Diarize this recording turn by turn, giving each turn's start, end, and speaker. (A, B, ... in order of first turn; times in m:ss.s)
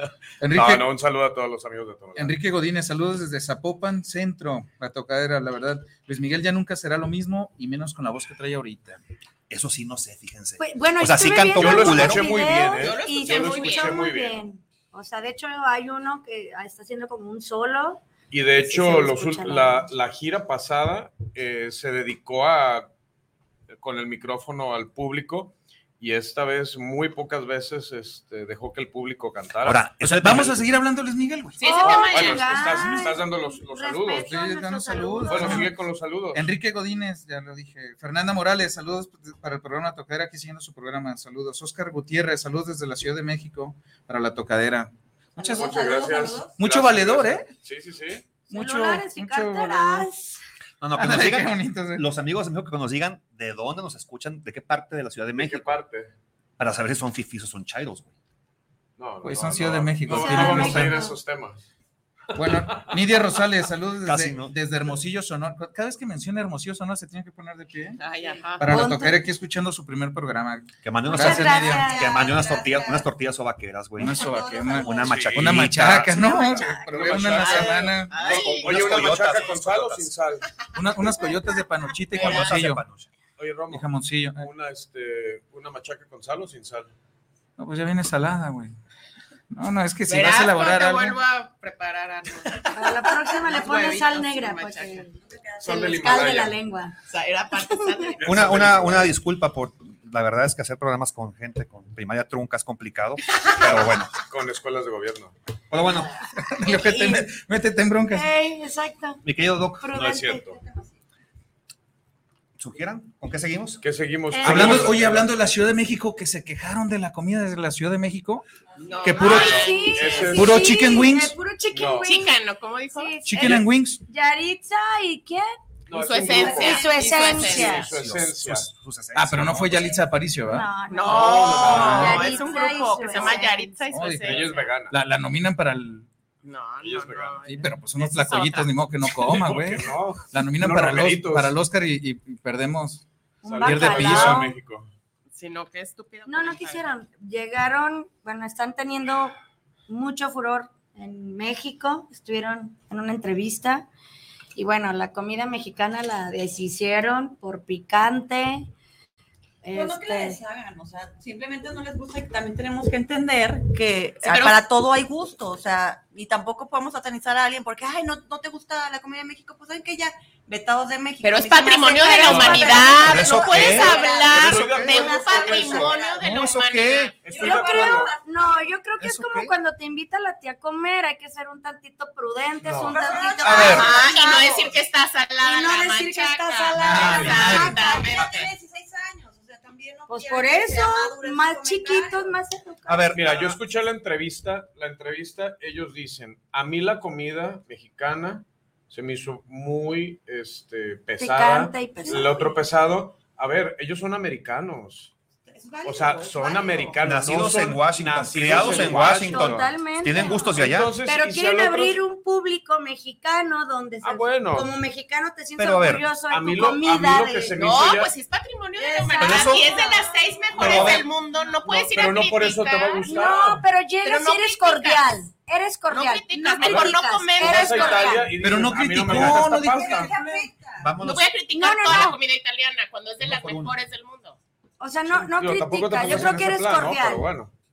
0:00.4-0:00.8 A
0:00.5-0:02.4 B
0:02.2-0:09.0 A
0:09.5-0:12.4 C
0:10.6-0:18.0 D
0:11.6-0:14.4 B
0:12.7-0:14.0 E
0:18.3-0:22.9 B
0:18.6-0:19.9 D
0:23.7-0:29.9 B
0:29.6-0:30.6 C
0:30.0-0:31.6 A
0:31.6-0:32.6 E
0:31.6-0:35.7 D
0:31.8-0:34.3 B
0:34.2-0:35.7 A
0:35.3-0:36.4 B
0:36.3-0:45.7 A
0:45.4-0:46.5 F
0:45.4-0:48.2 B
0:46.6-0:47.5 A
0:48.5-0:50.1 A
0:48.5-0:50.4 D
0:50.8-0:55.8 C
0:50.9-0:52.0 A
0:55.4-0:56.1 B
0:56.6-0:58.1 C
0:59.0-1:01.6 B
0:59.2-1:00.9 A
1:00.1-1:01.1 D
1:02.3-1:08.0 A
1:02.7-1:02.9 B
1:04.0-1:04.6 C
1:08.0-1:08.6 E
1:08.2-1:08.5 F
1:08.6-1:11.9 A
1:08.6-1:09.2 D
1:10.8-1:16.2 C
1:11.0-1:12.4 D
1:11.7-1:13.1 F
1:14.0-1:18.2 A
1:14.1-1:15.2 F
1:15.0-1:15.5 B
1:16.1-1:17.1 D
1:16.9-1:20.5 B
1:17.1-1:19.0 E
1:18.2-1:20.1 C
1:20.7-1:22.8 A
1:22.1-1:23.1 C
1:22.2-1:22.4 E
1:23.4-1:26.9 B
1:23.7-1:24.4 A
1:27.6-1:28.7 A
1:29.5-1:31.2 A
1:30.1-1:32.8 E
1:32.7-1:35.1 D
1:33.5-1:35.0 E
1:35.1-1:36.0 F
1:35.6-1:36.6 B
1:35.6-1:36.9 D
1:37.1-1:38.2 E
1:37.6-1:38.1 D
1:38.1-1:39.1 B
1:38.2-1:44.1 C
1:43.3-1:43.7 E
1:44.2-1:45.3 B
1:45.7-1:46.1 C
1:46.4-1:48.3 A
1:46.7-1:47.2 D
1:48.1-1:49.2 D
1:49.2-1:50.1 C
1:49.8-1:50.4 D
1:49.9-1:50.6 B
1:50.6-1:50.9 F
1:52.6-1:53.8 C
1:53.8-1:55.3 B
1:54.3-1:54.9 D
1:54.4-1:58.4 A
1:54.5-1:54.9 C
1:58.8-2:00.4 E
1:59.0-1:59.4 C
1:59.1-1:59.4 A
1:59.2-2:02.4 D
1:59.2-2:00.8 B
2:00.3-2:01.3 A
2:01.7-2:02.1 B
2:02.0-2:03.2 E
2:02.9-2:05.5 D
2:03.2-2:04.0 A
2:05.9-2:08.7 B
2:05.9-2:07.8 E
2:06.2-2:07.3 F
2:06.3-2:07.9 D
2:07.3-2:10.0 C
2:09.1-2:10.7 A
2:10.5-2:13.8 D
2:10.9-2:14.7 E
2:11.0-2:12.4 B
2:11.7-2:12.2 A
2:13.9-2:16.1 A
2:14.2-2:14.9 B
2:16.4-2:18.7 E
2:16.8-2:17.4 B
2:17.4-2:23.0 A
2:19.0-2:21.5 B
2:23.4-2:24.5 D
2:23.4-2:24.9 B
2:23.6-2:24.5 A
2:25.3-2:26.8 E
2:26.2-2:29.4 D
2:29.9-2:33.9 D
2:34.6-2:38.7 D
2:39.6-2:40.4 D
2:39.7-2:54.4 F
2:44.2-2:44.6 E
2:51.2-2:57.3 E
2:51.9-2:54.2 D
2:53.0-2:55.0 C
2:54.3-2:56.0 B
2:54.8-2:56.1 D
2:55.0-2:56.3 F
2:56.2-2:57.1 C
2:57.2-2:58.1 B
2:57.3-3:04.3 D
2:57.4-2:58.2 F
2:59.0-2:59.5 C
3:02.6-3:03.0 B
3:02.9-3:04.8 F
3:03.4-3:03.9 C
3:03.6-3:08.4 E
3:05.4-3:08.2 D
3:06.9-3:07.8 A
3:06.9-3:07.6 C
3:06.9-3:07.4 B
3:07.1-3:12.4 F
3:10.1-3:13.1 D
3:12.8-3:13.6 C
3:13.1-3:25.1 B
3:21.2-3:22.6 D
3:25.5-3:27.0 F
3:25.8-3:29.7 B
3:27.0-3:30.9 C
3:28.5-3:37.7 D
3:30.2-3:30.5 F
3:30.5-3:32.0 B
3:34.0-3:34.8 B
3:35.6-3:36.1 C
3:36.3-3:38.1 B
3:37.6-3:43.1 E
3:38.8-3:41.6 F
3:39.1-3:39.4 D
3:39.2-3:39.7 C
3:40.6-3:41.0 C
3:41.6-3:43.6 B
3:43.0-3:48.3 D
3:44.0-3:45.0 E
3:45.9-3:48.1 E
3:47.4-3:50.1 B
3:48.4-3:50.0 A
3:49.0-3:51.0 F
3:50.0-3:50.5 D
3:50.8-3:51.3 C
3:51.0-3:54.4 E
3:51.5-3:52.2 D
3:53.2-3:53.7 C
3:54.8-3:57.2 D
3:55.1-3:57.5 B